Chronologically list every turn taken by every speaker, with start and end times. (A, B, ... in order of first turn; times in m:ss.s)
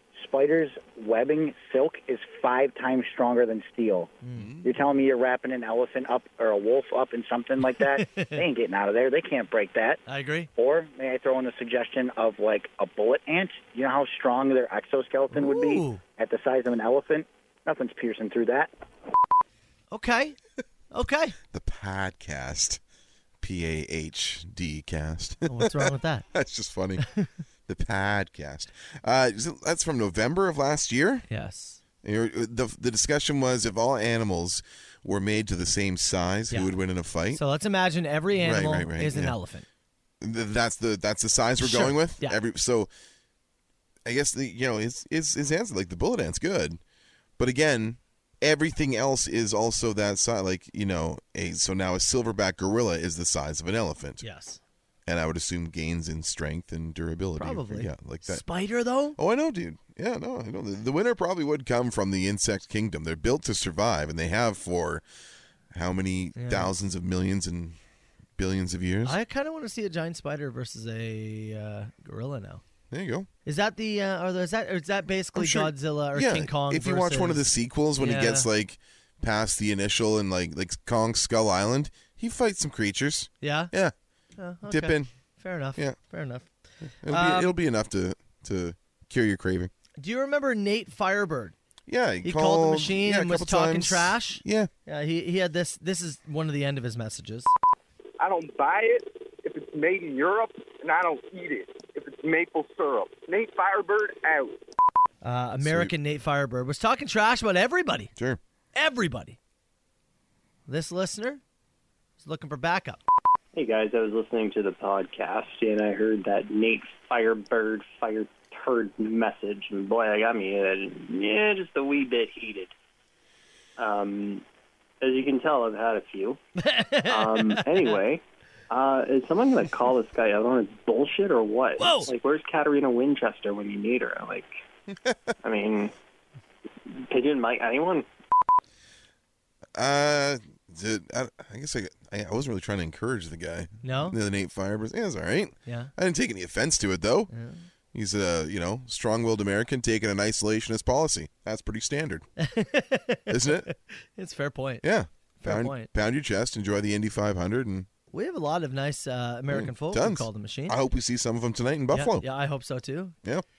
0:00.1-0:04.1 A
0:04.2-0:04.5 B
0:04.3-0:04.8 C
0:04.6-0:10.0 A
0:07.8-0:08.4 B
0:10.1-0:10.5 B
0:10.6-0:18.7 A
0:15.3-0:16.0 B
0:19.9-0:20.4 B
0:20.9-0:21.4 B
0:21.5-0:22.8 C
0:23.4-0:27.0 C
0:25.5-0:26.2 B
0:27.0-0:27.3 B
0:27.7-0:31.2 C
0:31.3-0:31.8 B
0:32.0-0:37.4 C
0:37.3-0:39.6 B
0:38.4-0:39.4 C
0:40.2-0:42.9 C
0:41.6-0:42.4 B
0:44.0-0:46.8 C
0:47.4-0:54.2 C
0:54.2-0:54.6 B
0:55.0-0:58.4 C
0:57.4-0:59.2 B
0:59.2-1:05.0 C
1:05.7-1:07.8 C
1:06.4-1:06.7 B
1:08.4-1:09.2 C
1:09.0-1:12.6 B
1:12.9-1:13.3 C
1:13.4-1:17.4 B
1:15.3-1:23.9 C
1:18.0-1:18.5 B
1:23.4-1:23.7 B
1:24.4-1:26.5 B
1:24.6-1:25.1 C
1:27.0-1:29.7 C
1:27.1-1:27.5 B
1:30.0-1:31.5 B
1:31.9-1:34.7 C
1:32.2-1:37.5 B
1:38.2-1:44.6 D
1:45.2-1:48.1 B
1:45.6-1:45.9 C
1:48.7-1:49.4 B
1:50.7-1:51.4 B
1:52.2-1:53.0 B
1:53.5-2:02.7 E
2:03.8-2:04.4 E
2:05.0-2:06.4 E
2:06.6-2:07.9 B
2:07.1-2:14.5 E
2:11.8-2:12.1 B
2:15.4-2:15.9 E
2:17.1-2:18.1 E
2:19.7-2:27.3 C
2:23.8-2:24.2 B
2:25.6-2:25.9 B
2:27.3-2:27.6 B
2:27.9-2:32.2 C
2:32.4-2:34.8 B
2:33.3-2:33.7 C
2:34.8-2:37.9 C
2:35.4-2:35.9 B
2:38.1-2:40.8 B
2:39.5-2:42.2 C
2:41.9-2:43.2 B